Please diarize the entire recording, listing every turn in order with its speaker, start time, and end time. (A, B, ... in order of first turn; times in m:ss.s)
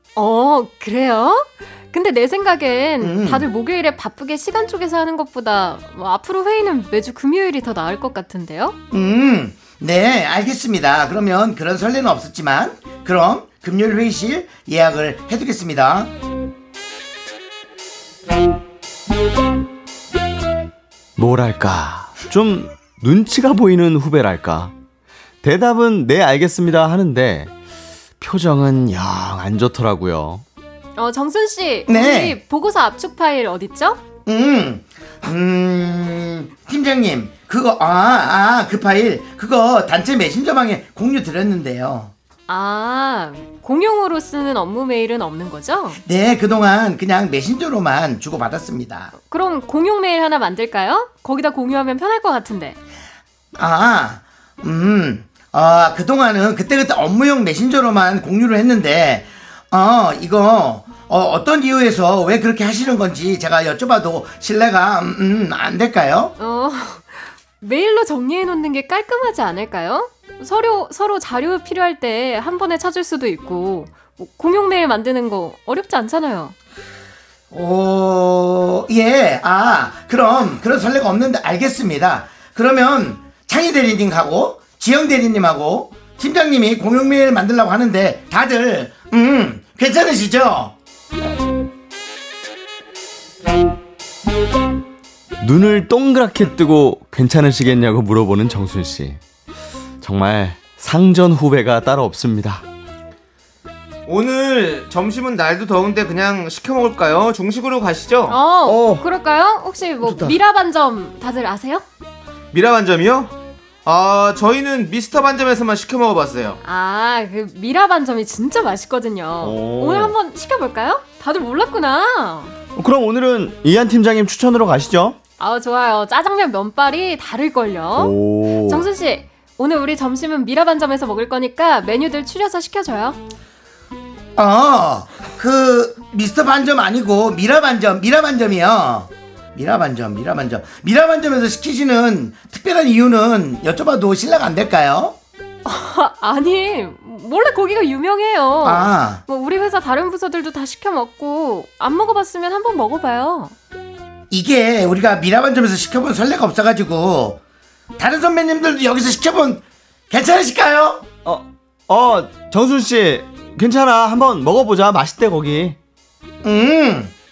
0:00.2-0:08.8 A
0:03.0-0:03.5 B
0:08.9-0:16.1 B
0:21.2-0:24.7 C
0:25.4-0:27.5 C
0:28.2-0:30.4 C
0:31.0-0:34.0 A
0:31.9-0:32.4 B
0:34.2-0:42.1 B
0:42.5-0:46.0 A
0:46.0-0:49.1 B
0:49.1-0:52.8 A
0:53.5-1:06.3 B
1:06.4-1:16.5 A
1:17.5-1:30.7 B
1:35.4-1:39.2 C
1:40.0-1:42.6 C
1:44.0-1:48.4 D
1:48.3-1:51.8 A
1:48.6-1:49.1 C
1:50.0-1:50.4 C
1:52.5-1:53.3 D
1:53.8-1:56.6 D
1:56.6-2:02.5 A
1:59.4-2:00.2 C
2:02.7-2:05.2 C
2:05.4-2:13.2 A
2:08.0-2:08.9 C
2:14.4-2:25.2 B
2:25.6-2:33.5 A
2:28.6-2:29.2 B
2:34.3-2:37.4 B
2:38.0-2:41.1 B
2:41.2-2:45.8 C
2:46.4-2:47.1 B